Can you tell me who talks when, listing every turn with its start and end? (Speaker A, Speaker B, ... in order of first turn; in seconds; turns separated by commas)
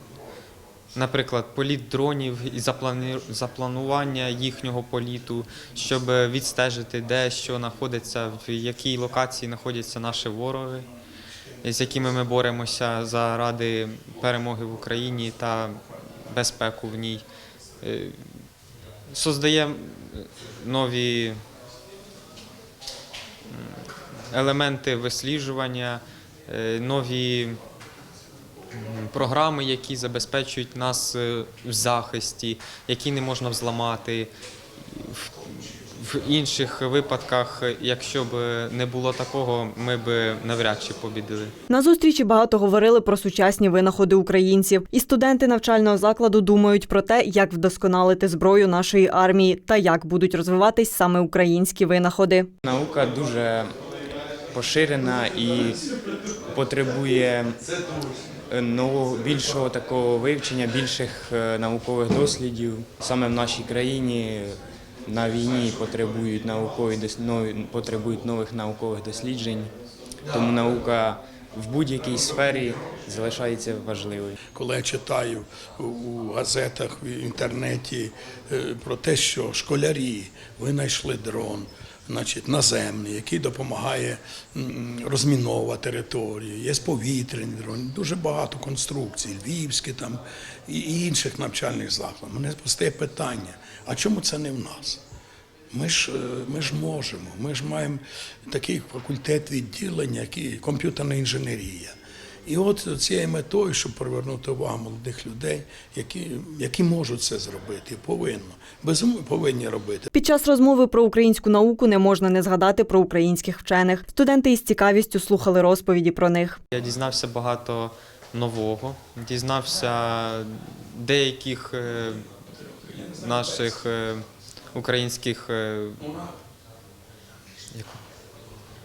Speaker A: 1.0-10.9, Speaker A: 11.6-15.8, Speaker A: 16.3-17.2, Speaker A: 17.8-18.2, Speaker A: 19.1-21.4, Speaker A: 23.5-27.6, Speaker A: 28.7-34.3, Speaker A: 34.9-41.5, Speaker B: 41.7-52.5, Speaker C: 52.6-53.7, Speaker C: 54.5-55.8, Speaker C: 56.5-57.6, Speaker C: 58.5-69.7, Speaker C: 70.3-74.4, Speaker D: 74.5-95.0, Speaker D: 95.7-102.0, Speaker D: 102.5-110.1, Speaker B: 110.1-116.6, Speaker A: 116.7-122.2, Speaker A: 123.1-124.2, Speaker A: 124.7-126.0, Speaker A: 127.7-128.0